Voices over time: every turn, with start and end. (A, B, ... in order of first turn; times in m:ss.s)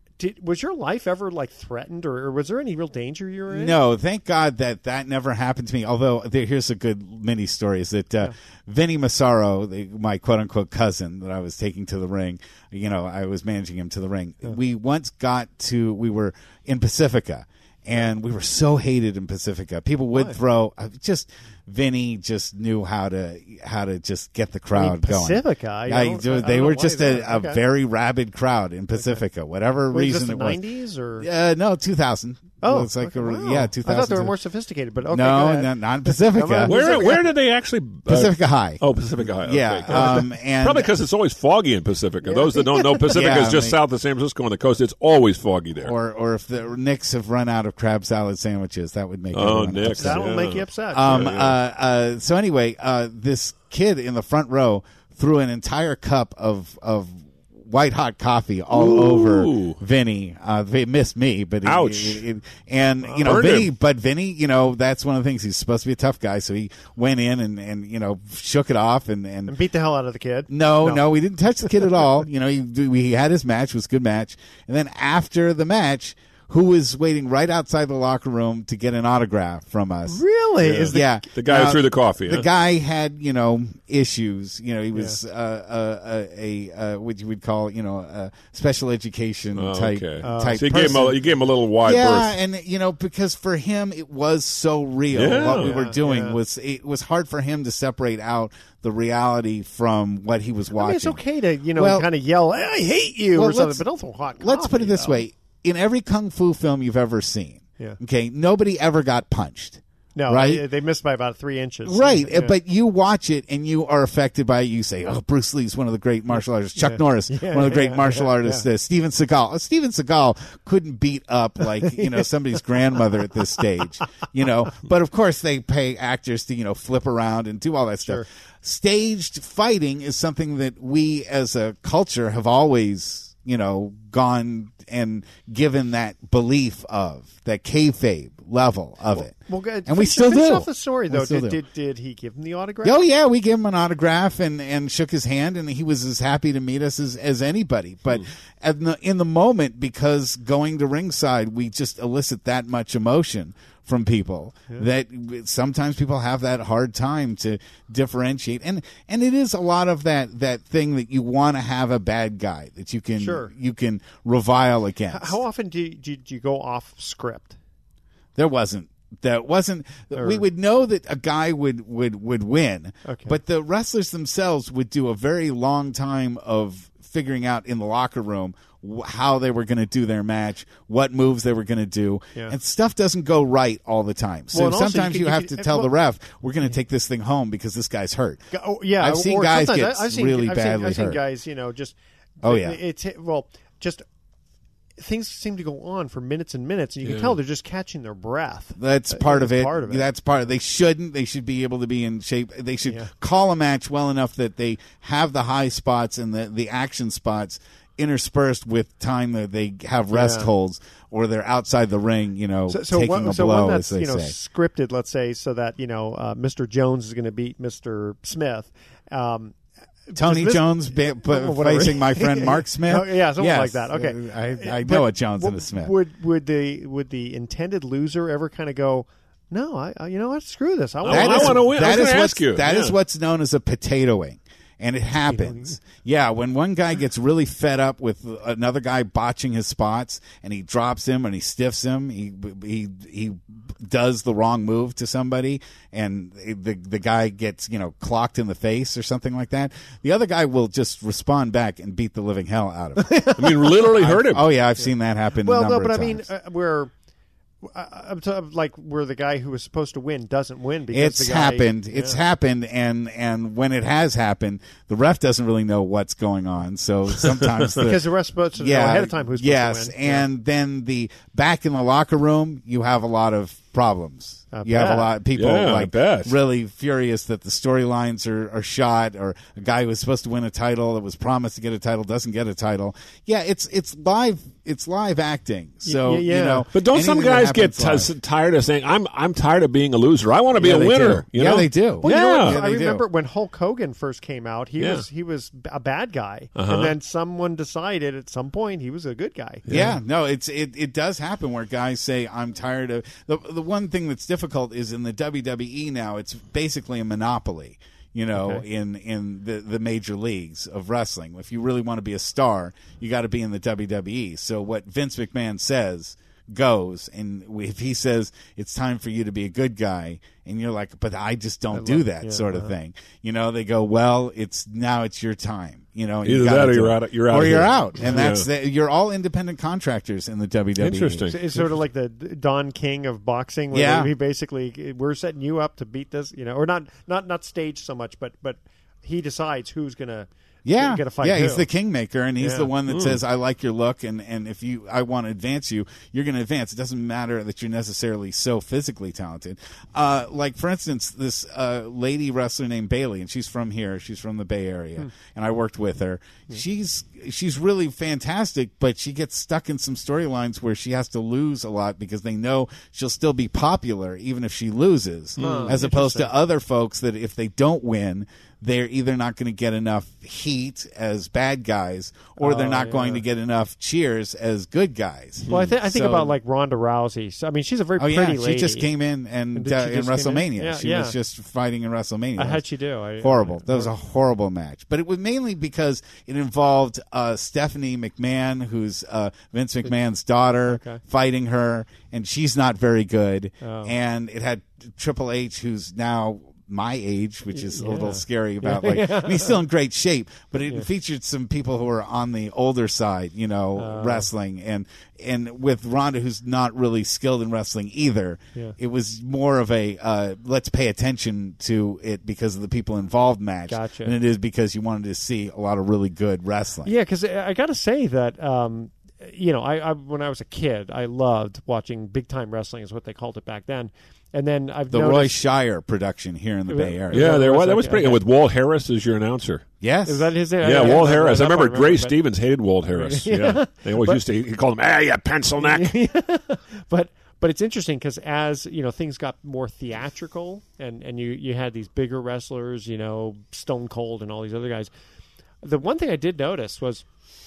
0:00.2-0:03.8 A
0:03.5-0:30.6 B
0:20.1-0:20.4 A
0:24.7-0:27.6 A
0:29.9-0:31.3 A
0:31.2-0:34.3 B
0:32.6-0:37.2 A
0:35.1-0:36.8 B
0:36.6-0:45.9 C
0:38.1-0:38.8 B
0:39.4-0:40.9 B
0:39.9-0:40.3 A
0:42.2-0:43.1 A
0:43.1-0:43.8 B
0:45.8-0:50.3 B
0:49.3-0:51.6 C
0:50.0-0:51.3 A
0:50.9-1:09.5 B
0:58.7-0:59.8 C
1:01.6-1:02.2 C
1:03.0-1:03.5 A
1:03.2-1:03.7 C
1:09.5-1:11.0 A
1:10.5-1:20.2 B
1:20.1-1:21.0 A
1:20.6-1:22.5 C
1:20.9-1:31.2 B
1:24.9-1:25.2 A
1:29.5-1:32.4 C
1:30.2-1:31.1 A
1:31.8-1:41.2 B
1:35.1-1:35.7 C
1:35.3-1:36.4 A
1:40.8-1:45.2 A
1:41.7-1:42.1 B
1:43.3-1:50.6 B
1:50.1-1:52.5 A
1:51.8-2:21.6 B
1:56.7-1:58.6 A
2:01.8-2:02.3 A
2:19.4-2:23.0 A
2:22.8-2:45.4 B
2:43.2-2:43.5 A
2:45.1-2:47.6 A
2:48.3-3:08.4 B
2:50.1-2:50.4 A
2:53.0-2:53.4 A
3:04.5-3:05.9 A
3:08.5-3:14.0 A
3:09.0-3:11.2 B
3:12.4-3:12.8 B
3:15.0-3:20.1 A
3:17.0-3:17.4 C
3:18.8-3:34.3 B
3:22.8-3:23.1 A
3:30.1-3:30.5 A
3:32.7-3:51.7 A
3:40.1-3:45.9 B
3:51.0-3:52.9 C
3:51.0-4:16.3 B
3:55.3-3:55.8 A
4:13.0-4:13.5 A
4:13.4-4:14.5 C
4:15.4-4:16.9 A
4:17.6-4:22.2 A
4:20.9-4:28.0 B
4:27.8-4:30.2 A
4:28.6-4:48.1 B
4:34.5-4:35.1 A
4:35.3-4:36.4 C
4:45.8-4:46.6 A
4:46.7-4:52.6 C
4:50.6-4:53.0 B
4:50.6-4:50.9 A
4:52.0-4:59.6 A
4:54.8-4:55.0 C
4:56.6-4:56.9 C
4:59.6-5:00.0 C
4:59.7-5:31.3 B
5:08.3-5:08.6 A
5:21.7-5:22.7 A
5:26.2-5:28.5 C
5:30.8-5:31.6 C
5:31.3-5:41.6 A
5:33.7-5:34.1 B
5:40.6-6:16.4 B
5:42.4-5:42.7 A
5:42.9-5:43.2 C
6:05.4-6:05.8 C
6:05.4-6:06.3 A
6:12.4-6:13.2 A
6:15.4-6:15.7 C
6:15.5-6:18.9 A
6:18.0-6:22.6 B
6:19.5-6:21.2 A
6:22.4-6:23.9 A
6:23.2-6:56.9 B
6:30.7-6:31.0 A
6:33.6-6:33.9 A
6:37.5-6:39.6 A
6:43.8-6:44.3 A
6:53.7-6:54.2 A
6:56.8-7:05.4 A
7:04.9-7:07.4 B
7:06.7-7:08.2 A
7:07.1-7:09.6 C
7:09.8-7:11.0 B
7:10.0-7:12.2 A
7:10.6-7:15.9 C
7:12.9-7:14.2 A
7:15.6-7:24.9 A
7:25.6-7:27.0 A